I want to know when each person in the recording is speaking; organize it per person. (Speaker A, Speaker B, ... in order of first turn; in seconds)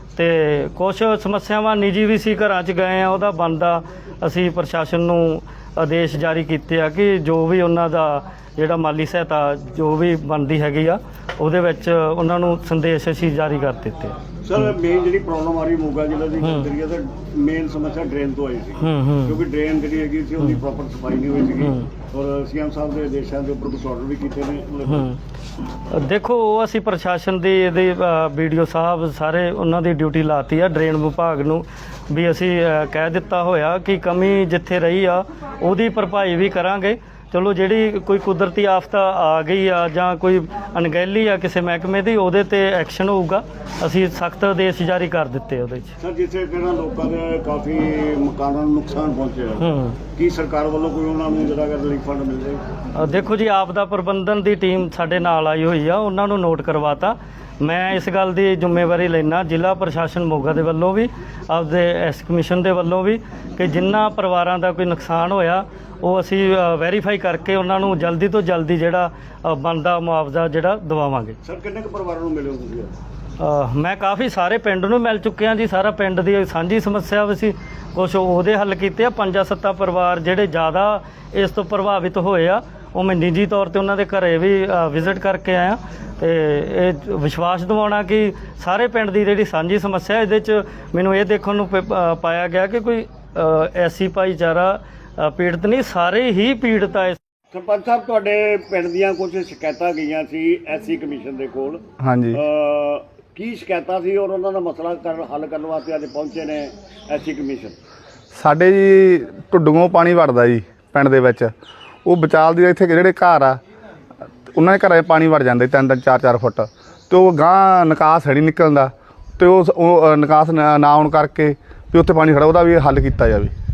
Speaker A: 0.2-14.2, 16.4-16.7, 18.8-19.4, 21.6-21.9, 25.9-45.9, 49.6-50.0, 53.0-71.4, 73.4-97.2
Speaker B: 14.4-25.1, 46.0-52.6, 71.4-72.9, 97.5-107.8
Speaker C: 102.0-102.4, 108.3-111.5, 112.0-113.6, 114.5-123.5